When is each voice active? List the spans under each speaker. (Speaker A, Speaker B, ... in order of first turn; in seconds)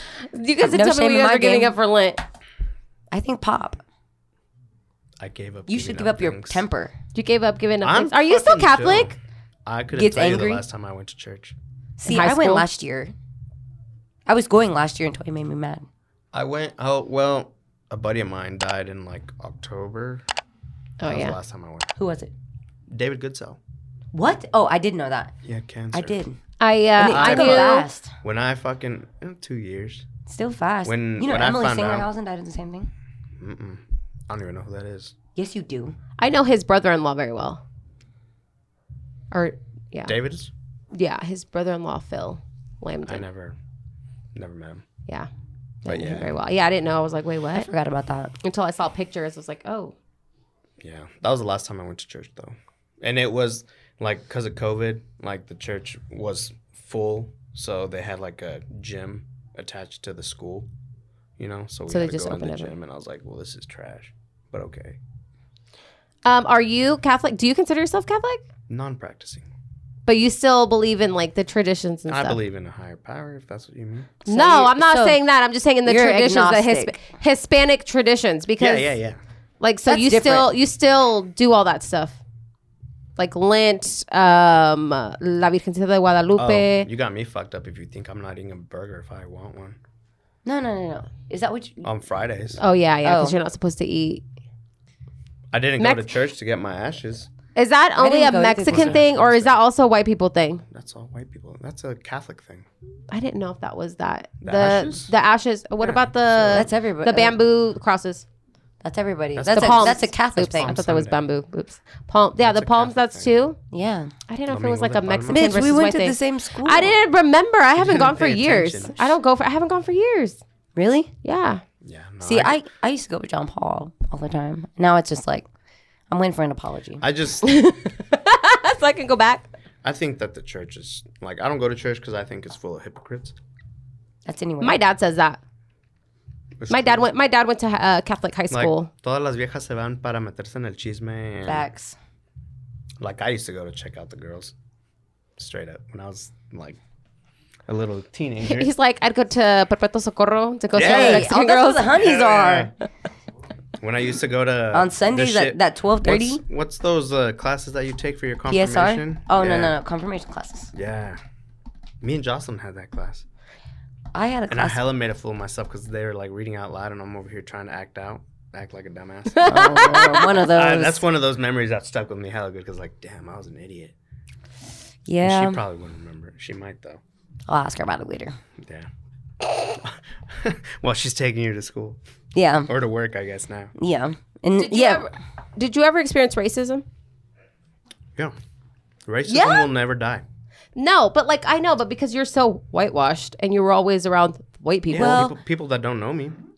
Speaker A: 0.3-2.2, 7.1-9.2, 12.0-12.6, 21.0-21.4, 26.6-27.9, 36.2-37.6, 39.3-40.1, 40.9-43.2, 45.8-47.7, 48.4-49.9, 61.9-62.7, 66.2-68.4, 70.0-72.4, 74.3-78.9, 79.6-82.2, 83.2-86.9, 92.6-94.2, 95.8-96.0, 97.5-100.6, 103.1-108.2, 109.5-113.6, 114.3-120.4, 121.2-121.6, 127.4-129.5, 134.6-135.4, 136.7-138.9, 148.4-151.9, 169.4-170.2, 184.6-186.8, 190.8-195.2
Speaker B: 0.6-1.7, 3.1-3.8, 5.7-6.9, 9.9-10.6, 12.0-13.1, 14.3-15.9, 21.9-22.3, 24.1-25.3, 25.9-26.4, 27.0-28.1, 30.3-32.9, 35.3-36.0, 47.5-48.3, 74.3-75.2, 75.8-77.0, 79.9-80.5, 90.4-91.8, 93.0-93.4, 98.0-99.0, 106.5-107.3, 108.8-110.8, 113.7-114.1, 115.3-116.9, 120.8-121.1, 122.2-125.5, 126.1-127.0, 134.2-134.8, 141.4-141.9, 150.8-152.7, 154.7-156.4, 158.5-160.7, 164.1-164.8, 169.4-171.0, 175.1-175.6, 177.5-178.4, 182.3-182.7, 183.8-185.1, 189.3-189.7, 194.9-195.3
Speaker C: 5.2-6.6, 7.8-11.6, 16.3-20.2, 21.0-21.9, 22.9-23.6, 25.4-26.2, 27.1-30.1, 30.8-32.1, 33.4-35.1, 40.0-40.5, 43.0-43.6, 44.3-44.8, 45.9-46.3, 50.8-60.7, 61.4-65.0, 68.7-69.5, 72.1-74.2, 78.6-79.2, 86.3-89.8, 91.8-92.6, 95.5-97.3, 98.7-99.6, 100.7-102.7, 104.4-105.1, 105.8-106.7, 109.3-111.2, 112.4-113.3, 114.5-115.8, 117.8-119.2, 121.8-122.6, 127.0-127.6, 129.8-133.4, 136.6-137.1, 138.5-141.6, 143.0-144.5, 145.4-146.8, 147.7-148.7, 150.7-151.3, 151.9-152.7, 153.8-159.8, 160.7-161.2, 162.0-163.2, 164.5-173.9, 175.2-177.0, 178.6-178.9, 179.7-182.0, 182.7-183.7, 189.1-190.2, 194.9-196.4